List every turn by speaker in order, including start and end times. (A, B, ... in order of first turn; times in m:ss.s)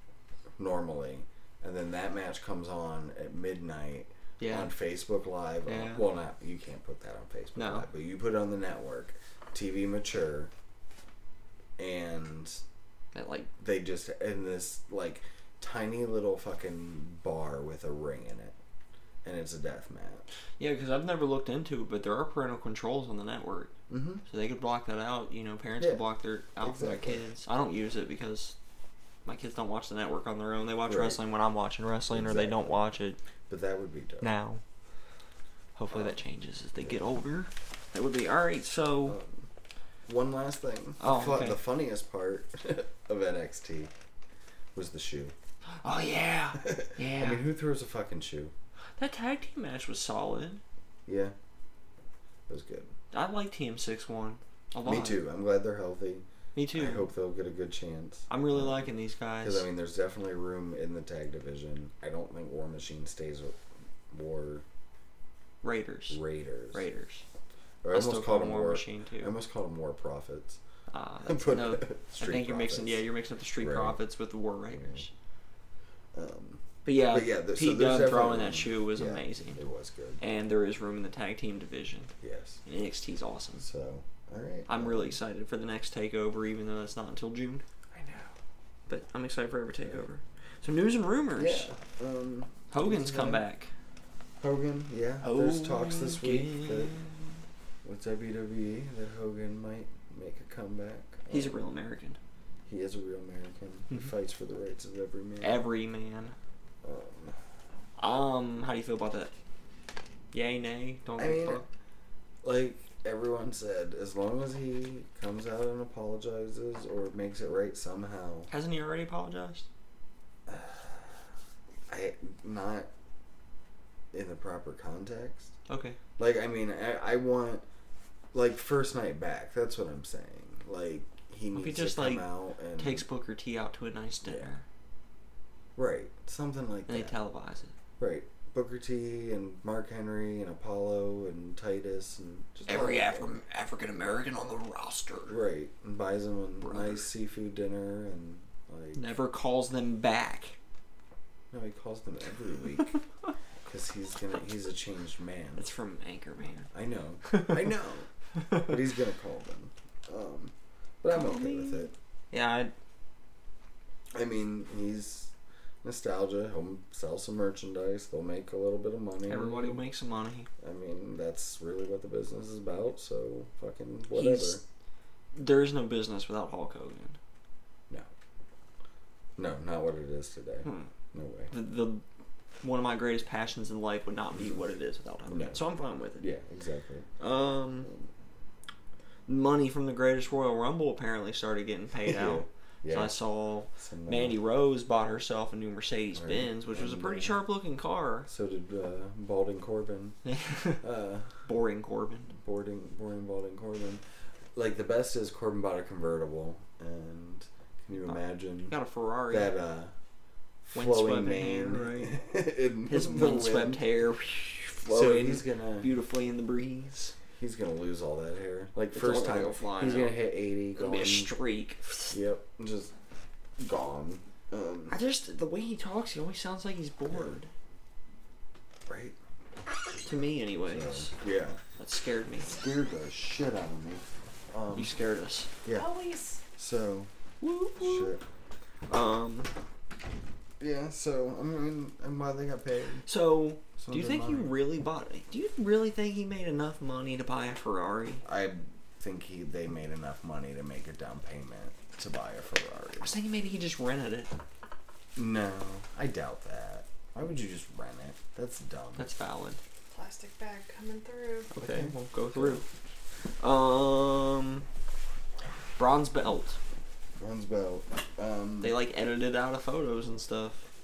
0:00.6-0:10.5 A
0:04.4-0:04.7 B
0:05.7-0:06.1 B
0:07.6-0:07.9 B
0:11.8-0:12.6 A
0:13.1-0:13.5 B
0:13.6-0:18.6 A
0:19.2-0:20.3 A
0:20.6-0:23.8 B
0:23.9-0:24.2 A
0:24.3-0:28.6 B
0:25.8-0:26.0 A
0:26.6-0:27.3 A
0:29.3-0:33.2 B
0:30.9-0:31.2 A
0:32.1-0:32.8 A
0:33.5-0:34.3 A
0:34.2-0:34.6 B
0:35.8-0:39.2 B
0:35.9-0:36.2 A
0:39.1-0:39.5 A
0:40.1-0:43.9 A
0:41.0-0:41.6 B
0:44.8-0:45.3 A
0:45.8-0:47.4 B
0:46.6-0:48.5 A
0:49.0-0:50.6 B
0:51.1-0:51.3 A
0:52.5-0:52.9 A
0:53.1-0:55.2 B
0:54.8-1:03.6 A
0:56.6-0:57.1 B
0:58.3-0:59.7 B
1:04.1-1:04.6 A
1:05.6-1:06.2 B
1:06.1-1:06.8 A
1:06.7-1:07.2 B
1:07.8-1:10.6 A
1:07.9-1:09.4 B
1:10.9-1:15.1 B
1:11.2-1:13.1 A
1:13.6-1:14.0 A
1:14.7-1:15.0 A
1:16.1-1:20.2 A
1:16.8-1:19.6 B
1:20.2-1:22.1 B
1:22.2-1:22.6 A
1:22.6-1:23.6 B
1:23.6-1:25.2 A
1:24.7-1:27.6 B
1:27.9-1:28.3 A
1:28.9-1:31.7 B
1:31.4-1:33.4 A
1:32.7-1:33.7 B
1:34.4-1:37.0 A
1:35.2-1:37.3 B
1:37.8-1:41.6 A
1:41.3-1:42.2 B
1:42.7-1:45.7 A
1:45.4-1:46.4 B
1:46.8-1:47.4 A
1:48.0-1:49.3 B
1:50.3-1:51.7 B
1:51.2-1:51.6 A
1:52.4-1:58.5 A
1:58.5-1:59.7 B
2:00.5-2:01.2 A
2:01.9-2:02.9 A
2:04.1-2:05.5 A
2:05.7-2:06.0 B
2:06.2-2:07.6 A
2:08.3-2:13.0 A
2:11.5-2:14.6 B
2:14.2-2:14.5 A
2:15.8-2:17.2 A
2:16.9-2:17.7 B
2:18.0-2:23.4 A
2:22.7-2:25.4 B
2:25.3-2:29.1 A
2:26.6-2:27.0 B
2:29.0-2:30.6 B
2:31.5-2:33.0 A
2:33.7-2:35.7 A
2:35.6-2:36.7 B
2:36.7-2:41.9 A
2:37.3-2:37.5 B
2:41.1-2:42.7 B
2:44.1-2:49.8 A
2:49.3-2:50.5 B
2:50.6-2:54.6 A
2:54.1-2:54.6 B
2:55.4-2:57.2 B
2:59.4-3:01.5 A
3:00.6-3:00.9 B
3:01.5-3:02.0 B
3:02.6-3:06.3 B
3:05.3-3:05.6 A
3:06.2-3:07.1 A
3:07.2-3:07.9 B
3:07.8-3:08.1 A
3:09.3-3:18.3 B
3:11.9-3:13.1 A
3:13.8-3:14.4 A
3:16.1-3:17.4 A
3:18.3-3:20.2 A
3:20.2-3:20.8 B
3:20.8-3:21.4 A
3:21.4-3:22.3 B
3:22.3-3:24.0 A
3:24.6-3:28.8 A
3:28.1-3:29.6 B
3:29.3-3:29.9 A
3:30.7-3:33.8 A
3:30.8-3:32.2 B
3:32.9-3:37.1 B
3:34.8-3:35.9 A
3:37.3-3:41.3 A
3:38.9-3:40.2 B
3:40.8-3:42.2 B
3:42.1-3:42.9 A
3:43.6-3:44.9 A
3:44.9-3:47.5 B
3:47.1-3:47.4 A
3:48.9-3:49.2 A
3:50.0-3:51.1 B
3:50.7-3:51.6 A
3:51.8-3:52.5 B
3:52.4-3:54.9 A
3:54.7-3:55.5 B
3:55.6-3:55.9 A
3:55.7-3:56.4 C
3:56.6-3:57.1 A
3:57.4-3:58.1 B
3:57.8-3:58.2 A
3:58.9-3:59.5 B
4:00.6-4:03.1 A
4:03.0-4:08.2 B
4:03.8-4:04.5 A
4:08.2-4:13.1 A
4:13.0-4:14.3 B
4:15.2-4:19.1 A
4:19.0-4:19.6 B
4:19.9-4:21.5 C
4:21.5-4:22.6 B
4:21.6-4:22.6 A
4:23.4-4:24.7 B
4:25.8-4:26.6 B
4:27.2-4:28.8 A
4:28.6-4:30.6 B